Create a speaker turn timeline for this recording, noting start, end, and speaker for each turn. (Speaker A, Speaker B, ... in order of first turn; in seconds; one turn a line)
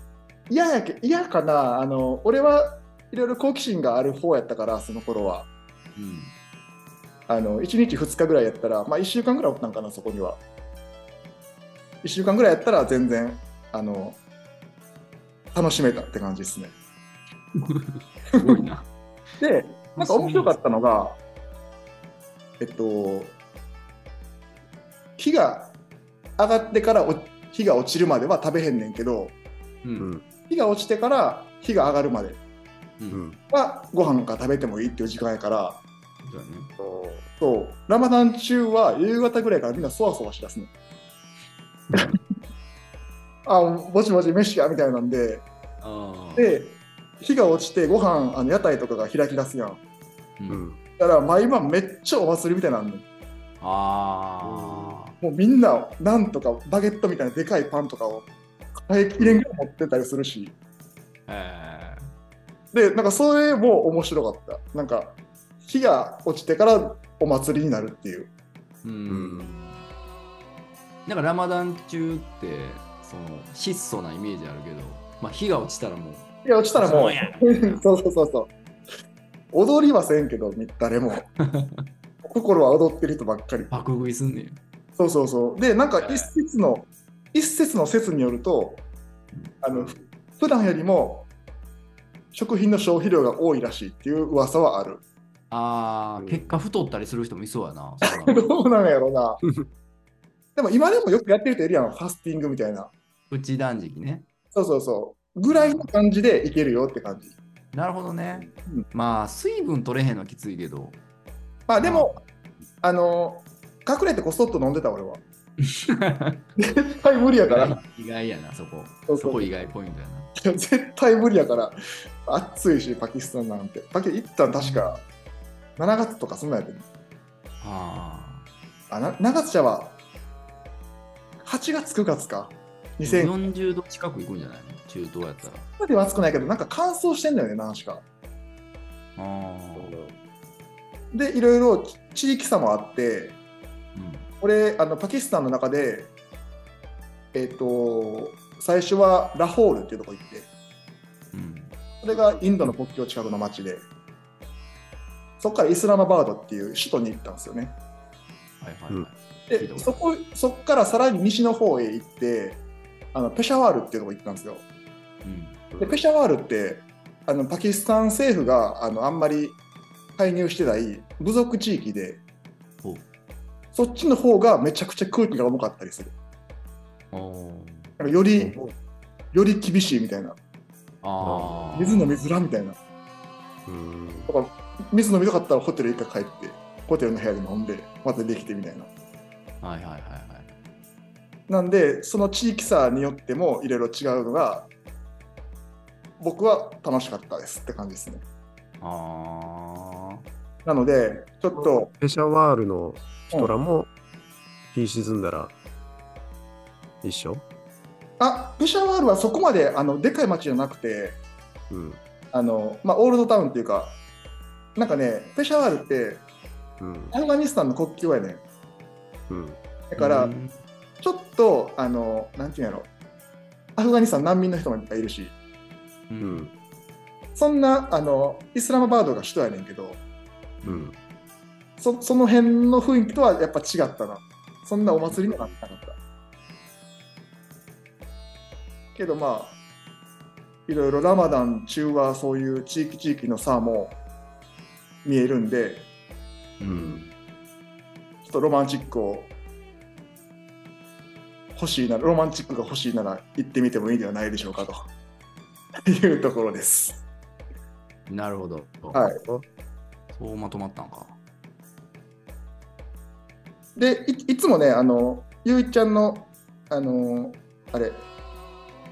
Speaker A: 0.5-5.5
Speaker B: 6.0-6.3
Speaker A: 7.3-10.4
Speaker A: 12.0-14.2
Speaker A: 15.5-16.7
Speaker B: 17.6-18.9
Speaker A: 18.4-18.6
Speaker A: 19.4-21.2
Speaker B: 19.9-20.6
Speaker A: 22.6-23.4
Speaker A: 25.2-25.7
Speaker A: 26.4-29.4
Speaker B: 29.8-30.1
Speaker C: 30.0-30.2
Speaker A: 30.5-32.4
Speaker C: 33.1-33.4
Speaker A: 33.5-35.8
Speaker B: 36.2-36.7
Speaker C: 36.8-37.2
Speaker A: 37.3-40.7
Speaker A: 43.4-45.5
Speaker B: 45.8-46.5
Speaker A: 46.4-49.8
Speaker B: 50.4-50.6
Speaker C: 50.5-50.8
Speaker A: 51.0-53.0
Speaker B: 53.6-55.1
Speaker C: 54.4-55.0
Speaker A: 55.2-60.5
Speaker C: 59.2-59.4
Speaker B: 61.3-62.0
Speaker A: 62.7-68.3
Speaker B: 68.8-69.8
Speaker C: 69.1-69.5
Speaker B: 71.0-77.8
Speaker A: 76.4-78.5
Speaker A: 79.5-81.2
Speaker B: 81.4-81.9
Speaker A: 82.2-83.7
Speaker B: 83.7-84.6
Speaker A: 85.0-88.8
Speaker B: 86.0-86.3
Speaker A: 89.6-91.3
Speaker A: 92.3-95.0
Speaker B: 95.5-98.5
Speaker C: 96.2-96.6
Speaker A: 98.2-99.4
Speaker A: 100.5-102.9
Speaker B: 103.3-104.2
Speaker A: 104.5-107.3
Speaker B: 105.5-105.9
Speaker B: 107.7-111.0
Speaker A: 108.5-108.8
Speaker A: 111.7-112.2
Speaker B: 111.8-112.2
Speaker A: 112.8-115.2
Speaker B: 115.6-116.5
Speaker A: 116.6-117.8
Speaker B: 117.5-120.3
Speaker A: 119.1-119.5
Speaker A: 120.4-125.0
Speaker B: 124.6-125.0
Speaker A: 125.8-126.8
Speaker B: 127.6-128.5
Speaker A: 128.9-129.9
Speaker A: 131.4-133.3
Speaker B: 133.0-135.7
Speaker A: 135.8-138.0
Speaker B: 139.2-140.0
Speaker C: 139.8-140.2
Speaker A: 141.1-143.3
Speaker B: 143.9-144.3
Speaker A: 144.4-146.1
Speaker A: 147.3-150.5
Speaker B: 151.3-151.8
Speaker A: 152.0-153.8
Speaker A: 155.4-157.8
Speaker B: 158.6-160.0
Speaker A: 159.5-162.6
Speaker A: 163.1-164.6
Speaker B: 165.2-165.6
Speaker C: 165.7-166.0
Speaker A: 165.8-169.6
Speaker A: 170.2-172.2
Speaker A: 173.7-176.1
Speaker B: 177.1-177.9
Speaker A: 178.0-178.6
Speaker C: 178.4-178.7
Speaker A: 179.3-180.4
Speaker B: 181.0-182.2
Speaker C: 181.2-181.7
Speaker A: 181.7-182.8
Speaker C: 183.7-184.3
Speaker A: 184.3-188.9
Speaker B: 189.6-190.6
Speaker A: 191.5-194.7
Speaker A: 196.2-198.2
Speaker B: 198.8-200.2
Speaker A: 200.6-201.9
Speaker C: 201.5-203.9
Speaker C: 204.7-205.5
Speaker C: 207.0-207.4
Speaker A: 208.2-211.2
Speaker C: 211.7-212.0
Speaker A: 212.3-214.0
Speaker A: 214.8-216.2
Speaker C: 216.8-217.1
Speaker A: 217.1-218.4
Speaker C: 219.3-219.6
Speaker A: 219.9-220.3
Speaker B: 220.0-220.6
Speaker A: 221.0-222.9
Speaker A: 223.8-225.3
Speaker B: 226.1-226.5
Speaker C: 226.2-226.5
Speaker A: 227.3-230.0
Speaker B: 230.6-230.9
Speaker C: 230.7-230.9
Speaker A: 231.8-236.0
Speaker C: 235.1-235.5
Speaker A: 238.9-239.6
Speaker A: 240.7-244.0
Speaker A: 245.0-245.9
Speaker B: 246.6-247.1
Speaker C: 246.7-247.1
Speaker A: 248.2-249.3
Speaker A: 251.5-254.8
Speaker A: 255.8-257.0
Speaker B: 258.1-259.1
Speaker A: 258.9-259.2
Speaker B: 260.1-261.2
Speaker A: 263.8-268.1